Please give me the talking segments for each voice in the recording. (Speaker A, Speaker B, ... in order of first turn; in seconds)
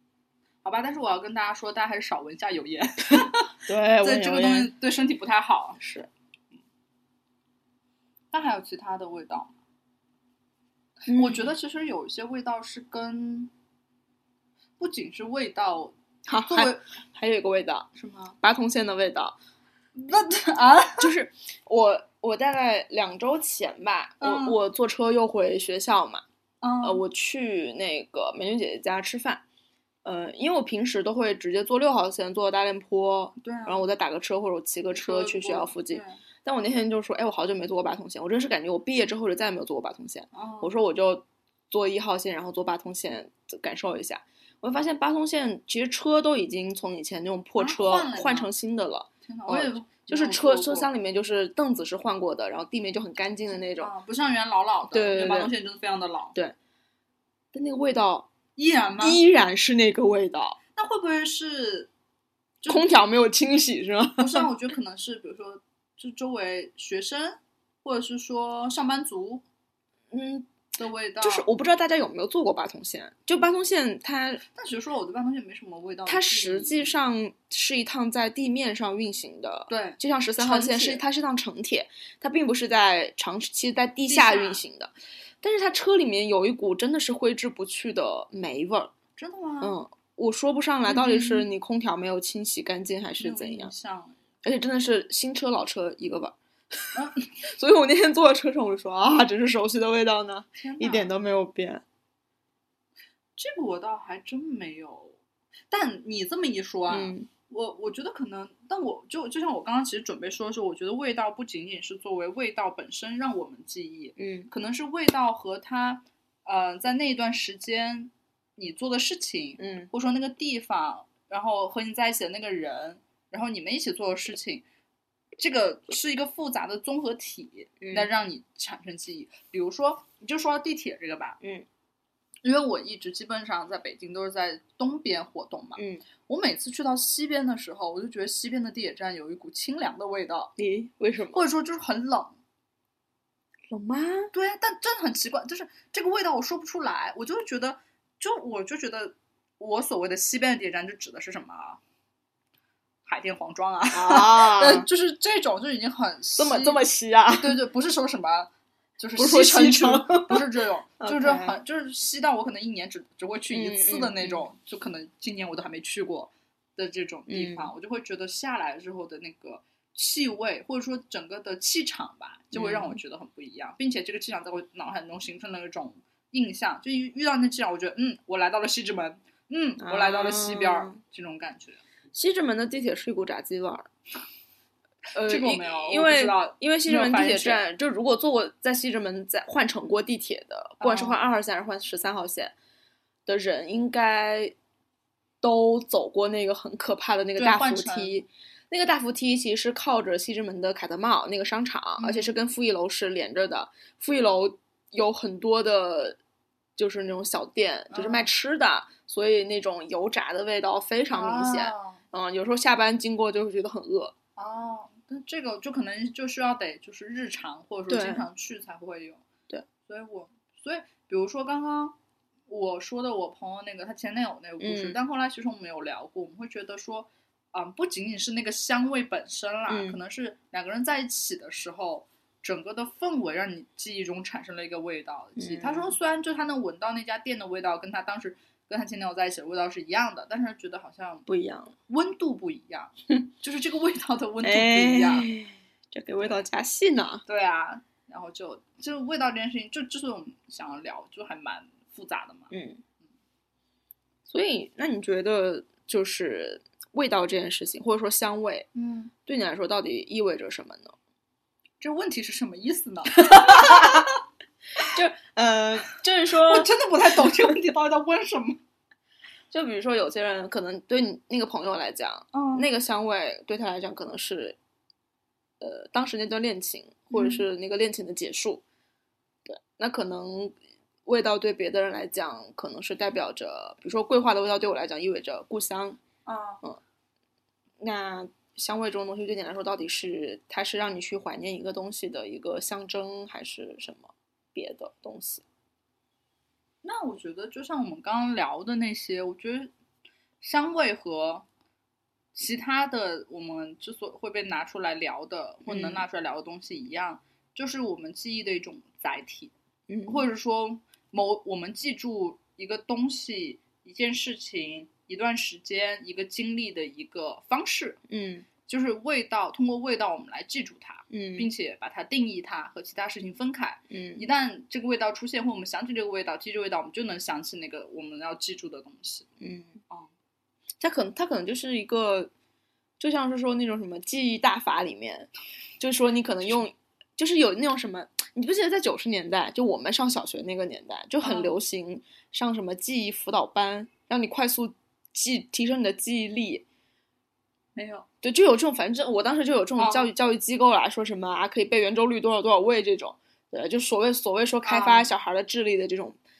Speaker A: 0.6-5.8, 8.3-9.6, 11.1-13.5, 14.8-16.9, 17.9-18.4, 19.9-21.1, 24.2-24.6, 26.6-27.0, 33.4-33.8, 34.9-36.2, 40.3-40.8, 47.6-48.5, 49.3-50.9, 53.8-56.4, 58.6-59.2, 60.8-61.9, 62.6-62.9, 64.2-69.4, 70.8-71.5, 74.5-76.9, 79.7-81.0, 84.1-84.6, 89.2-89.7, 90.9-91.5, 93.2-94.2, 96.9-97.3, 100.6-101.1, 103.4-105.2, 105.7-124.6, 125.4-131.4, 132.4-140.5, 141.3-142.4, 144.3-151.8, 153.1-181.8, 185.2-187.6, 190.8-191.2, 197.4-198.2, 202.0-202.4, 207.9-208.3, 211.1-212.0, 214.4-219.2, 219.9-221.9, 222.5-241.3, 241.9-245.3, 247.3-252.5, 258.8-259.1, 261.8-264.1, 266.4-268.6, 272.3-272.7, 277.1-277.4, 286.2-286.6, 296.8-299.7, 300.4-301.5, 302.3-309.5, 310.1-318.0, 318.6-329.3, 341.2-341.5, 347.8-348.1, 349.8-350.1, 354.6-355.1
Speaker B: 3.6-4.7, 5.8-6.1, 11.1-11.5, 16.3-17.9, 18.4-19.4, 21.0-26.2, 26.8-29.4, 30.0-53.9, 54.9-55.5, 57.5-58.3, 59.0-60.6, 62.7-64.5, 70.1-70.5, 71.2-74.4, 76.1-88.9, 89.6-93.7, 94.4-101.8, 106.9-107.3, 114.2-114.5, 119.6-119.9, 127.8-128.1, 131.4-131.7, 135.8-136.0, 140.6-141.4, 143.7-144.3, 153.9-154.9, 156.4-157.6, 159.2-160.5, 161.0-161.6, 163.5-164.5, 167.3-167.7, 172.5-173.0, 179.8-181.0, 182.1-183.9, 185.1-192.6, 193.3-194.5, 195.4-206.2, 206.8-214.1, 217.9-218.2, 224.6-225.0, 229.7-230.0, 235.4-235.9, 241.3-241.7, 244.4-247.2, 252.5-252.8, 254.2-258.7, 259.2-260.9, 263.2-264.1, 264.9-266.7, 269.5-274.6, 275.6-278.6, 279.5-286.0, 287.8-295.4, 305.6-306.1, 309.9-310.2, 318.1-318.5, 321.1-321.5, 323.9-324.2, 329.4-329.8, 330.8-332.3, 333.0-346.6, 348.2-356.2